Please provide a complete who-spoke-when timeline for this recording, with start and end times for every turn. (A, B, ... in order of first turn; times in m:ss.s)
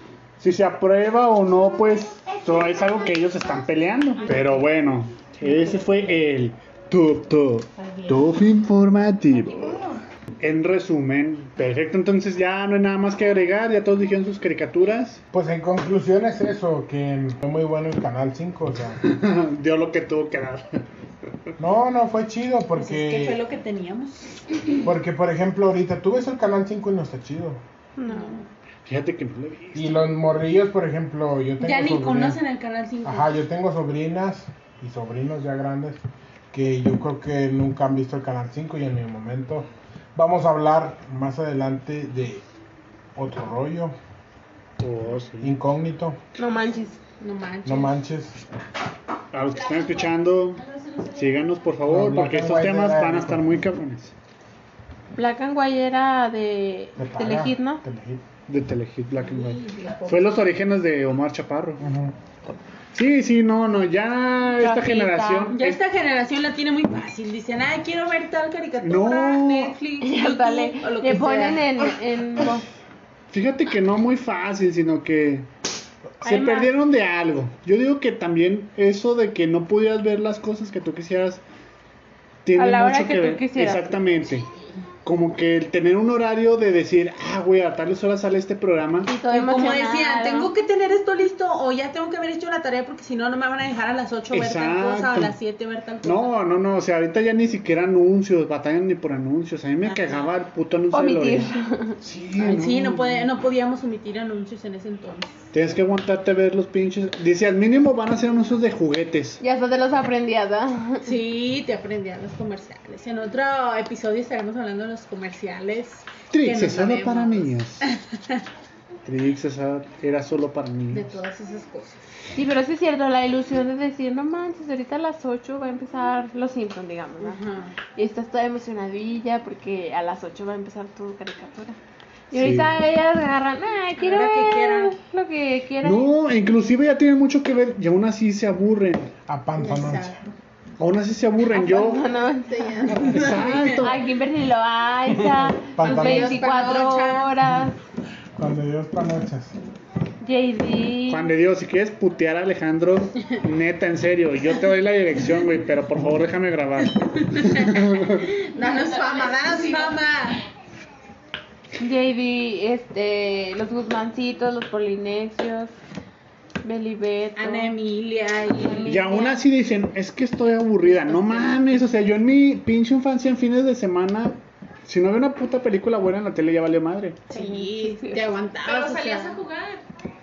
0:00.4-0:15.2 A
0:07.8-0:08.1 B
0:15.3-0:19.0 C
0:19.0-0:20.8 A
0:21.6-0:23.4 C
0:22.8-0:24.4 B
0:24.8-0:27.6 C
0:28.0-0:28.4 D
0:28.0-0:28.4 B
0:28.9-0:30.0 A
0:29.7-0:32.4 C
0:31.6-0:33.3 B
0:33.0-0:36.0 C
0:36.5-0:42.4 C
0:43.2-0:44.0 C
0:44.8-0:45.5 A
0:45.4-0:46.2 C
0:46.4-0:47.0 D
0:47.2-0:48.0 B
0:47.6-0:48.4 C
0:49.3-0:50.6 A
0:50.8-0:51.2 E
0:51.1-0:54.1 A
0:51.9-0:53.4 C
0:55.2-0:57.8 D
0:57.0-0:58.2 C
0:58.5-1:01.9 A
0:59.7-1:00.3 B
1:01.8-1:02.1 C
1:02.9-1:05.8 A
1:04.6-1:05.6 D
1:05.5-1:11.7 B
1:08.8-1:09.8 A
1:10.0-1:12.6 D
1:13.3-1:15.5 A
1:16.2-1:21.4 A
1:16.2-1:16.7 B
1:22.4-1:24.5 A
1:22.6-1:24.0 D
1:25.0-1:29.1 A
1:29.0-1:30.5 D
1:29.2-1:36.4 B
1:34.3-1:35.4 A
1:36.0-1:43.3 A
1:40.9-1:42.0 D
1:42.4-1:45.4 B
1:45.5-1:49.4 A
1:49.4-1:51.0 D
1:51.0-1:57.6 B
1:56.3-1:57.9 A
1:59.0-2:01.2 A
2:00.9-2:02.0 B
2:02.3-2:07.4 D
2:07.2-2:07.7 B
2:08.0-2:11.8 D
2:12.3-2:16.1 D
2:12.3-2:12.8 A
2:14.0-2:15.0 B
2:15.8-2:19.1 A
2:19.3-2:20.2 C
2:19.6-2:20.3 B
2:20.8-2:22.1 A
2:21.5-2:27.8 D
2:22.5-2:23.7 B
2:23.0-2:24.1 A
2:23.8-2:24.2 E
2:25.5-2:26.4 C
2:25.8-2:27.3 B
2:26.1-2:27.0 E
2:28.4-2:29.6 C
2:30.2-2:31.3 D
2:31.1-2:38.3 A
2:37.3-2:40.4 B
2:38.6-2:39.9 D
2:41.8-2:45.7 D
2:46.6-2:47.7 D
2:47.3-2:49.4 B
2:48.9-2:57.3 A
2:51.0-2:51.6 B
2:57.3-2:59.4 B
2:57.3-2:58.3 D
2:58.6-2:59.8 E